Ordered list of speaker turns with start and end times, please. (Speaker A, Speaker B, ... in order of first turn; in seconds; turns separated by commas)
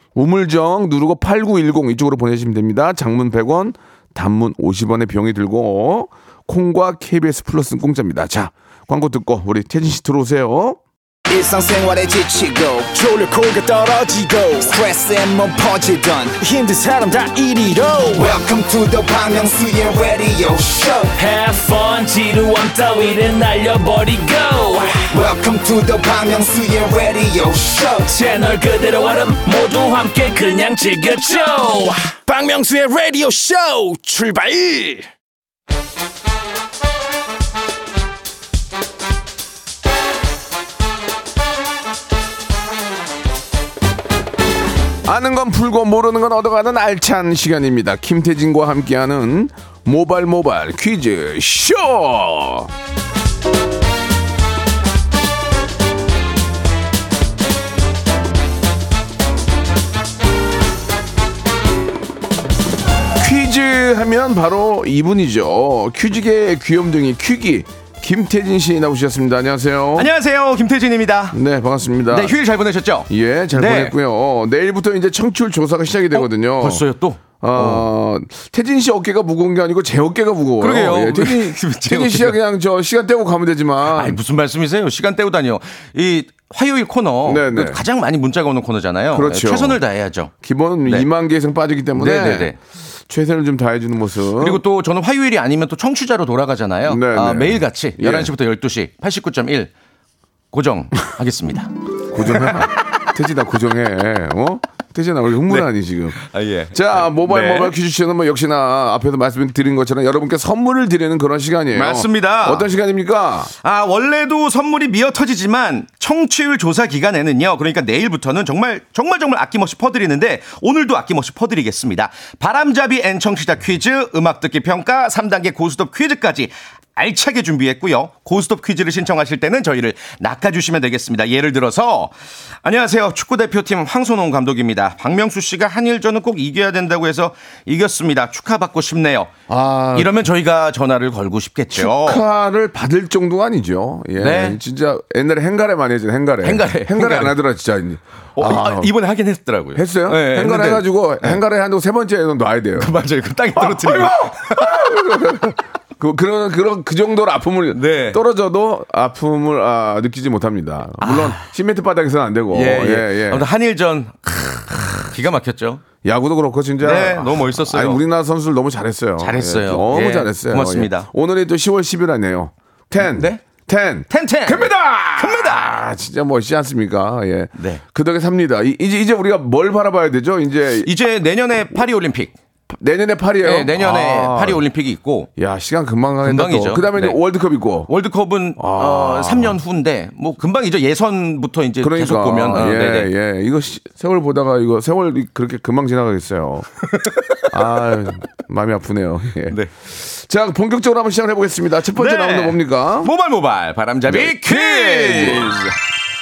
Speaker A: 0.1-10.8, Speaker B: 11.3-21.1, Speaker C: 21.1-24.9, Speaker B: 25.1-28.1, Speaker C: 28.1-31.7, Speaker D: 31.0-35.1, Speaker A: 45.0-52.7, Speaker A: 63.1-70.1, Speaker E: 70.0-71.4, Speaker A: 71.3-72.3, Speaker E: 72.1-73.9, Speaker A: 73.1-76.8, Speaker E: 76.1-77.8, Speaker A: 77.4-84.2, Speaker E: 80.6-82.4, Speaker E: 83.9-90.3, Speaker A: 87.2-87.8, Speaker A: 89.1-89.8, Speaker A: 90.4-92.5, Speaker E: 91.9-92.5, Speaker A: 93.1-94.6, Speaker E: 94.4-99.7, Speaker A: 96.8-98.3, Speaker E: 100.5-101.7, Speaker A: 102.1-106.2, Speaker E: 102.2-102.6, Speaker E: 105.5-107.7, Speaker A: 106.7-113.5, Speaker E: 111.7-112.7, Speaker E: 113.6-139.4, Speaker A: 139.5-140.1, Speaker E: 139.9-142.2, Speaker A: 141.7-148.9, Speaker E: 144.2-144.6, Speaker E: 146.4-147.4, Speaker E: 148.3-151.4, Speaker A: 149.7-152.9, Speaker E: 152.8-155.5, Speaker A: 153.6-163.4, Speaker E: 157.7-158.2, Speaker E: 161.0-161.5, Speaker E: 162.5-165.8, Speaker A: 166.0-180.9, Speaker E: 166.8-168.0, Speaker E: 169.2-171.1, Speaker E: 173.0-173.4, Speaker E: 174.1-175.8, Speaker E: 177.6-177.8, Speaker E: 180.8-182.3, Speaker A: 182.7-184.6, Speaker E: 183.4-185.3, Speaker A: 185.4-187.9, Speaker E: 186.2-187.2, Speaker E: 187.9-193.1, Speaker A: 188.6-189.6, Speaker A: 191.8-196.7, Speaker E: 196.9-197.4, Speaker A: 197.5-203.1, Speaker E: 201.9-205.7, Speaker A: 204.1-205.7